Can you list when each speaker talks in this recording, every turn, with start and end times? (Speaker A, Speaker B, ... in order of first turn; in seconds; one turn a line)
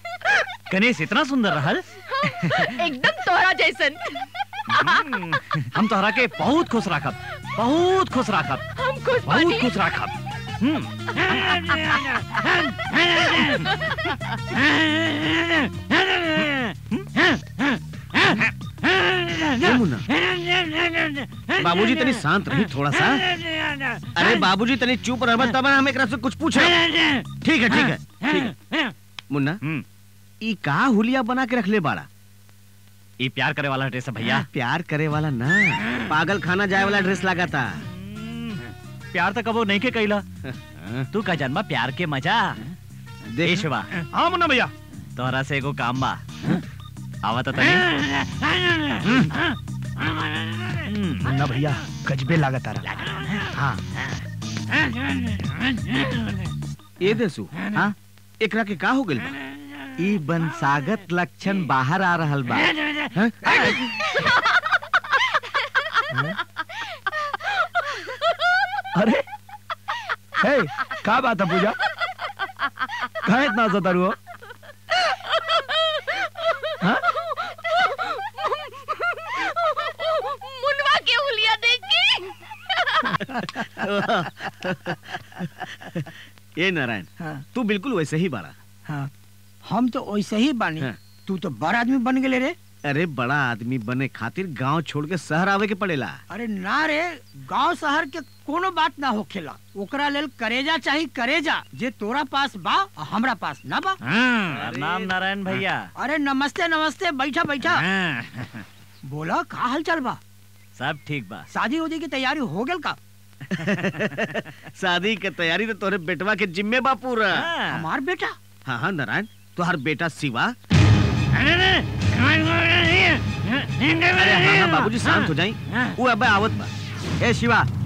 Speaker A: 0.7-1.8
Speaker B: 2.1-5.2
Speaker A: 4.7-8.6
Speaker B: 8.8-9.9
Speaker A: 9.2-10.9
Speaker A: 16.3-17.1
Speaker C: 19.6-20.1
Speaker C: 21.5-23.2
Speaker C: 24.1-26.8
Speaker C: 27.4-28.6
Speaker C: 29.3-29.6
Speaker C: 30.4-32.1
Speaker A: 33.2-34.5
Speaker C: 34.2-37.8
Speaker A: 38.3-38.6
Speaker A: 39.1-40.2
Speaker C: 40.5-41.1
Speaker A: 41.1-42.6
Speaker C: 43.3-43.6
Speaker A: 43.4-43.9
Speaker D: 44.1-44.7
Speaker A: 45.1-46.6
Speaker A: 47.2-47.8
Speaker D: 51.2-53.0
Speaker C: 57.0-57.5
Speaker C: 58.4-59.3
Speaker E: 60.0-62.7
Speaker C: 63.1-63.7
Speaker D: 66.1-66.4
Speaker D: 68.9-69.2
Speaker D: 70.4-71.8
Speaker D: 73.2-74.2
Speaker B: 77.4-83.2
Speaker C: 83.7-88.5
Speaker F: 89.6-92.5
Speaker C: 92.8-96.2
Speaker F: 96.3-104.0
Speaker A: 104.2-105.9
Speaker F: 106.0-107.8
Speaker A: 107.6-108.6
Speaker F: 109.0-110.2
Speaker A: 110.8-111.5
Speaker F: 111.5-113.0
Speaker C: 113.6-117.5
Speaker A: 117.3-117.8
Speaker F: 117.7-118.4
Speaker C: 118.7-120.5
Speaker C: 124.1-126.7
Speaker E: 127.2-127.7